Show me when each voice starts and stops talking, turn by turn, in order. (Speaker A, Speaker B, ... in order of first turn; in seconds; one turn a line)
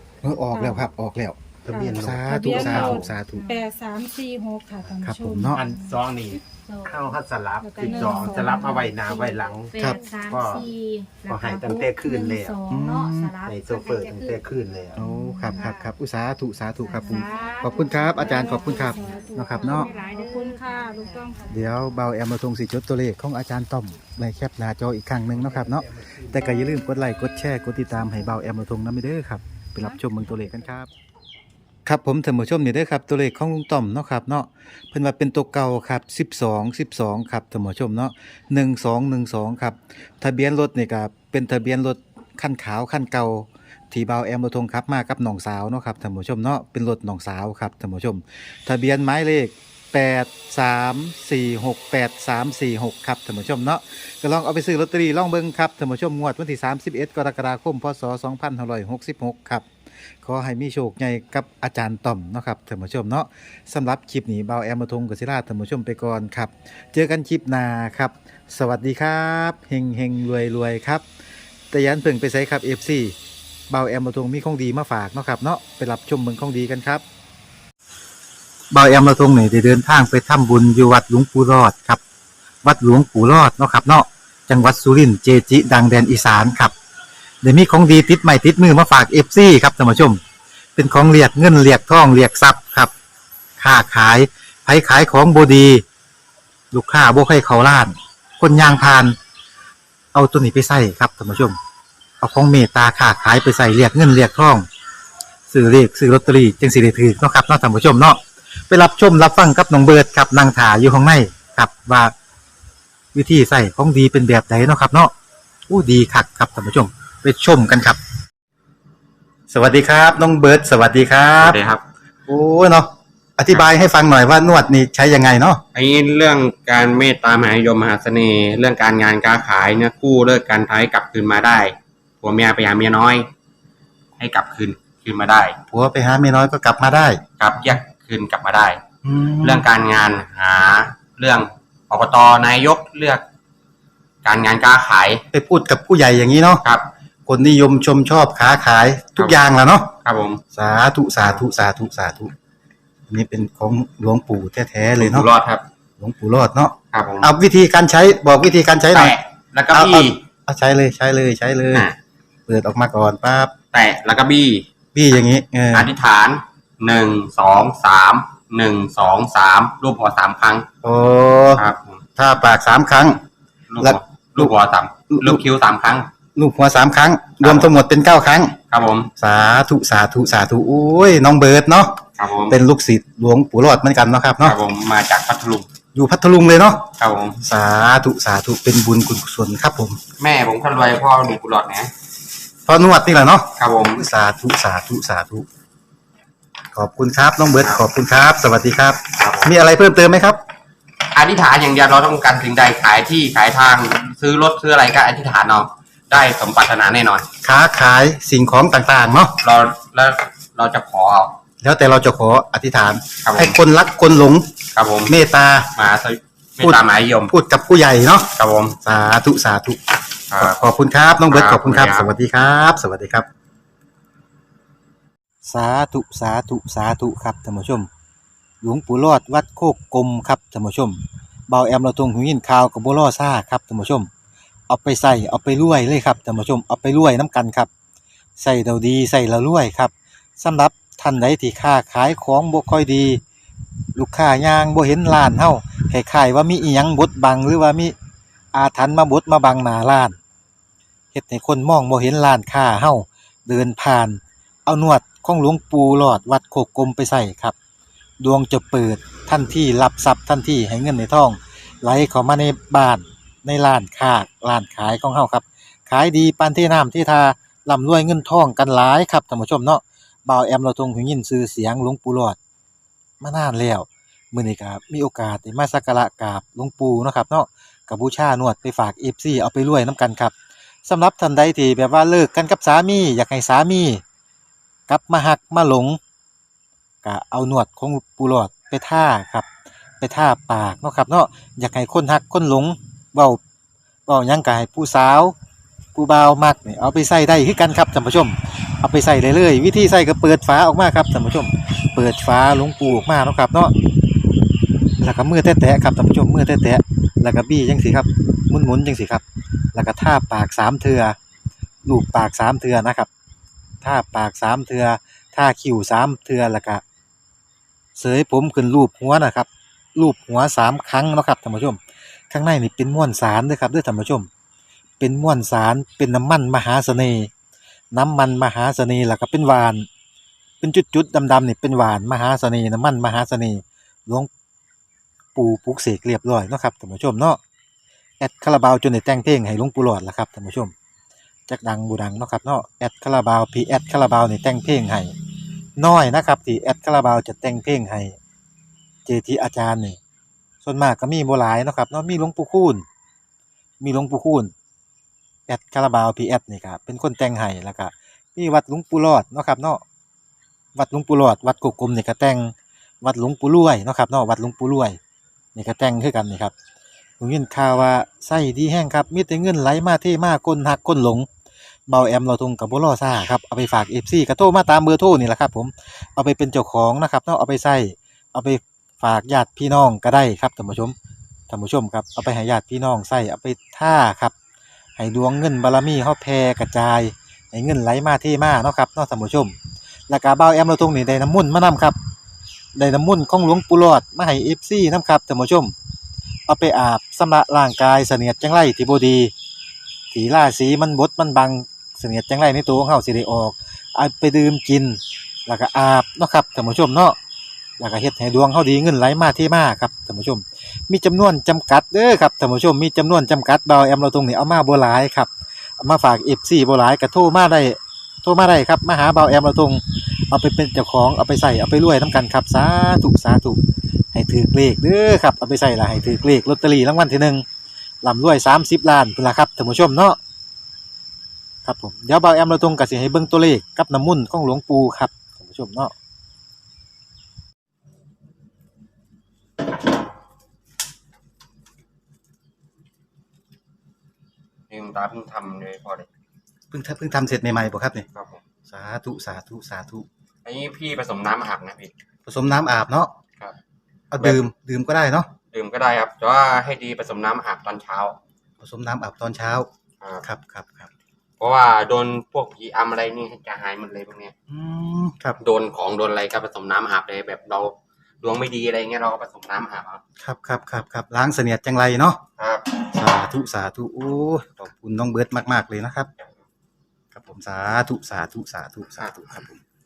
Speaker A: 0.2-1.4
Speaker B: 0.5-0.9
Speaker C: 1.6-3.2
Speaker B: 1.7-6.0
Speaker A: 2.0-3.5
Speaker D: 3.3-3.7
Speaker C: 4.8-10.7
Speaker A: 5.0-5.6
Speaker D: 6.4-7.2
Speaker B: 7.6-9.3
Speaker D: 7.8-14.4
Speaker C: 11.3-12.6
Speaker A: 12.7-13.3
Speaker C: 13.4-15.0
Speaker A: 15.0-19.9
Speaker B: 15.0-15.9
Speaker D: 16.8-21.9
Speaker B: 17.0-21.6
Speaker A: 21.5-30.9
Speaker C: 25.3-26.8
Speaker A: 31.9-59.7
Speaker A: 60.2-71.0
Speaker A: 71.7-73.2
Speaker A: 73.7-77.0
Speaker A: 78.7-82.0
Speaker A: 82.6-86.7
Speaker A: 87.4-90.2
Speaker A: 90.8-92.9
Speaker A: 93.6-95.8
Speaker A: 96.7-99.2
Speaker A: 100.1-101.6
Speaker A: 102.2-104.7
Speaker A: 105.5-112.1
Speaker A: 113.1-115.1
Speaker A: 115.7-118.0
Speaker A: 119.5-121.6
Speaker E: 121.4-121.8
Speaker A: 122.3-125.6
Speaker E: 125.7-133.3
Speaker E: 134.2-135.6
Speaker A: 135.7-137.2
Speaker E: 137.4-138.8
Speaker A: 139.0-139.7
Speaker E: 139.4-143.2
Speaker E: 144.2-145.2
Speaker A: 145.3-146.6
Speaker A: 147.3-149.9
Speaker E: 150.0-150.4
Speaker A: 150.5-152.3
Speaker A: 153.1-155.3
Speaker E: 154.9-155.6
Speaker A: 156.0-159.2
Speaker E: 156.9-157.3
Speaker E: 158.9-160.2
Speaker A: 159.7-161.9
Speaker A: 162.5-163.5
Speaker E: 163.7-164.7
Speaker A: 164.9-165.9
Speaker E: 165.7-170.7
Speaker A: 170.8-171.6
Speaker E: 171.6-172.0
Speaker A: 172.2-173.2
Speaker E: 173.7-176.1
Speaker A: 173.8-174.6
Speaker A: 175.1-175.4
Speaker A: 176.4-178.6
Speaker E: 177.4-177.8
Speaker E: 178.7-179.1
Speaker A: 179.2-184.6
Speaker E: 182.2-182.6
Speaker E: 184.4-185.7
Speaker A: 185.9-190.0
Speaker E: 187.0-187.4
Speaker E: 190.2-191.9
Speaker A: 192.7-195.5
Speaker E: 193.6-194.1
Speaker A: 196.7-200.4
Speaker E: 199.2-199.5
Speaker E: 201.1-207.3
Speaker A: 207.4-209.4
Speaker E: 209.4-211.3
Speaker A: 211.6-214.5
Speaker E: 213.2-213.6
Speaker E: 214.8-217.3
Speaker A: 215.1-215.7
Speaker A: 216.6-219.8
Speaker E: 218.3-218.8
Speaker E: 220.3-220.6
Speaker A: 220.4-223.3
Speaker E: 221.3-222.1
Speaker A: 225.4-227.9
Speaker A: 228.6-234.1
Speaker A: 234.7-237.7
Speaker A: 238.4-243.2
Speaker A: 243.9-247.9
Speaker A: 248.5-250.2
Speaker A: 251.1-257.6
Speaker A: 258.2-272.4
Speaker A: 273.2-280.3
Speaker A: 280.9-284.0
Speaker A: 284.9-286.0
Speaker A: 287.0-289.5
Speaker A: 290.0-293.4
Speaker A: 294.1-295.4
Speaker A: 295.9-303.8
Speaker A: 305.0-311.2
Speaker A: 311.9-313.1
Speaker A: 313.8-316.8
Speaker A: 317.9-324.3
Speaker A: 325.0-327.3
Speaker A: 327.9-329.9
Speaker A: 330.6-334.3
Speaker A: 335.4-337.4
Speaker A: 338.2-340.7
Speaker A: 341.5-345.1
Speaker A: 345.8-348.2
Speaker A: 349.1-350.0
Speaker A: 350.6-352.9
Speaker A: 353.8-354.5
Speaker A: 355.5-359.8
Speaker A: 360.8-365.0
Speaker A: 365.6-366.5
Speaker A: 367.2-371.3
Speaker A: 371.9-380.9
Speaker A: 381.5-384.4
Speaker A: 385.0-389.6
Speaker A: 390.1-392.0
Speaker A: 392.8-395.8
Speaker A: 396.5-399.3
Speaker A: 400.1-407.2
Speaker A: 407.8-423.6
Speaker A: 424.1-427.4
Speaker A: 428.0-430.2
Speaker A: 431.6-435.9
Speaker E: 444.7-446.1
Speaker A: 446.7-448.1
Speaker E: 448.1-448.4
Speaker A: 448.7-450.1
Speaker E: 450.4-451.9
Speaker A: 452.3-453.1
Speaker A: 454.1-455.3
Speaker E: 455.5-458.2
Speaker A: 458.6-459.7
Speaker E: 460.0-460.3
Speaker A: 460.2-460.9
Speaker E: 461.4-464.3
Speaker A: 464.5-465.4
Speaker E: 465.4-470.0
Speaker A: 470.2-472.2
Speaker E: 472.4-472.7
Speaker A: 472.8-476.1
Speaker A: 477.1-479.6
Speaker E: 479.0-479.3